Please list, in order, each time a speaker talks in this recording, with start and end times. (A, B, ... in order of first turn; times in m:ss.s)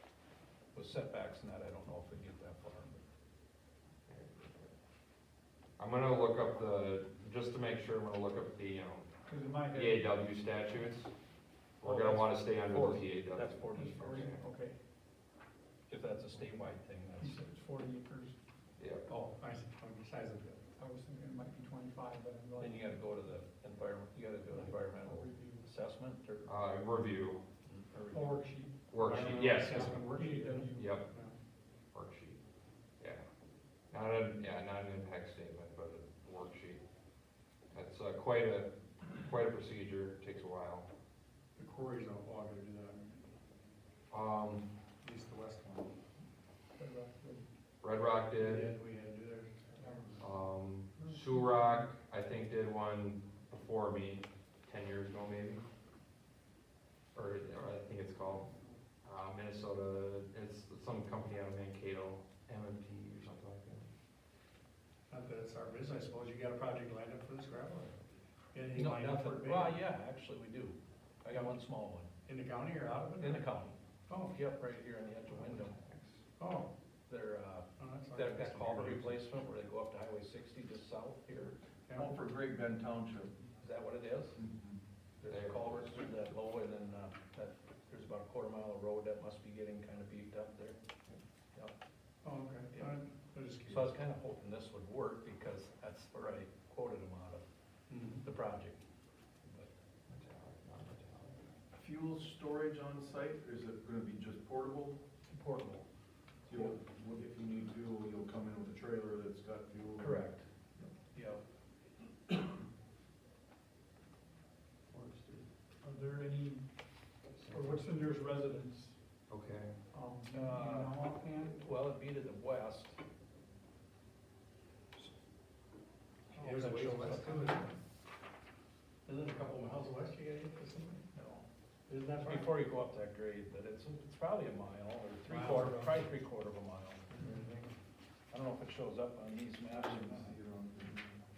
0:00.7-0:03.0 A
0:04.1-0:04.7 B
0:05.8-0:09.1 B
0:09.3-0:10.0 C
0:09.7-0:11.1 B
0:11.8-0:14.4 B
0:11.8-0:14.3 A
0:13.7-0:14.8 C
0:15.9-0:17.5 A
0:17.2-0:18.3 C
0:18.8-0:19.0 B
0:19.1-0:19.3 C
0:19.3-0:20.6 D
0:20.8-0:22.9 C
0:22.6-0:26.5 A
0:24.5-0:25.6 C
0:26.4-0:27.4 B
0:27.6-0:28.4 A
0:28.1-0:31.0 C
0:28.9-0:30.1 B
0:29.0-0:31.3 D
0:30.7-0:31.1 B
0:31.9-0:32.4 B
0:33.0-0:33.2 B
0:33.9-0:36.8 B
0:37.7-0:40.9 B
0:41.6-0:43.2 D
0:44.1-0:44.6 B
0:45.0-0:45.9 D
0:46.8-0:47.4 C
0:47.8-0:48.7 B
0:48.4-0:50.3 D
0:49.8-0:50.2 C
0:50.2-0:55.6 B
0:51.0-0:51.6 C
0:57.1-0:58.5 B
0:59.0-1:03.9 B
1:05.1-1:07.9 D
1:08.5-1:09.8 D
1:08.7-1:12.1 A
1:12.2-1:13.5 D
1:13.2-1:15.8 A
1:14.1-1:14.4 D
1:15.5-1:16.2 B
1:16.4-1:16.7 D
1:17.1-1:21.6 A
1:17.8-1:19.2 D
1:21.9-1:22.1 D
1:22.0-1:23.3 E
1:23.6-1:24.4 A
1:24.3-1:24.8 E
1:25.2-1:30.8 A
1:25.3-1:25.9 B
1:32.2-1:33.9 D
1:32.7-1:33.0 A
1:33.6-1:37.4 A
1:37.9-1:38.2 D
1:38.2-1:38.8 A
1:39.4-1:39.7 A
1:40.1-1:41.4 B
1:41.7-1:45.0 E
1:45.3-1:45.8 A
1:46.5-1:50.9 E
1:50.0-1:50.4 A
1:51.1-1:51.4 A
1:54.9-1:55.5 B
1:55.8-1:56.6 C
1:57.3-1:57.8 B
1:57.5-1:59.0 C
1:59.3-1:59.7 B
1:59.9-2:01.6 C
2:00.3-2:03.0 A
2:06.3-2:07.7 D
2:06.4-2:07.6 B
2:09.0-2:11.0 D
2:11.1-2:11.4 C
2:11.9-2:12.5 D
2:12.2-2:17.0 A
2:15.3-2:16.0 D
2:15.4-2:15.9 C
2:18.3-2:20.3 A
2:19.7-2:21.2 E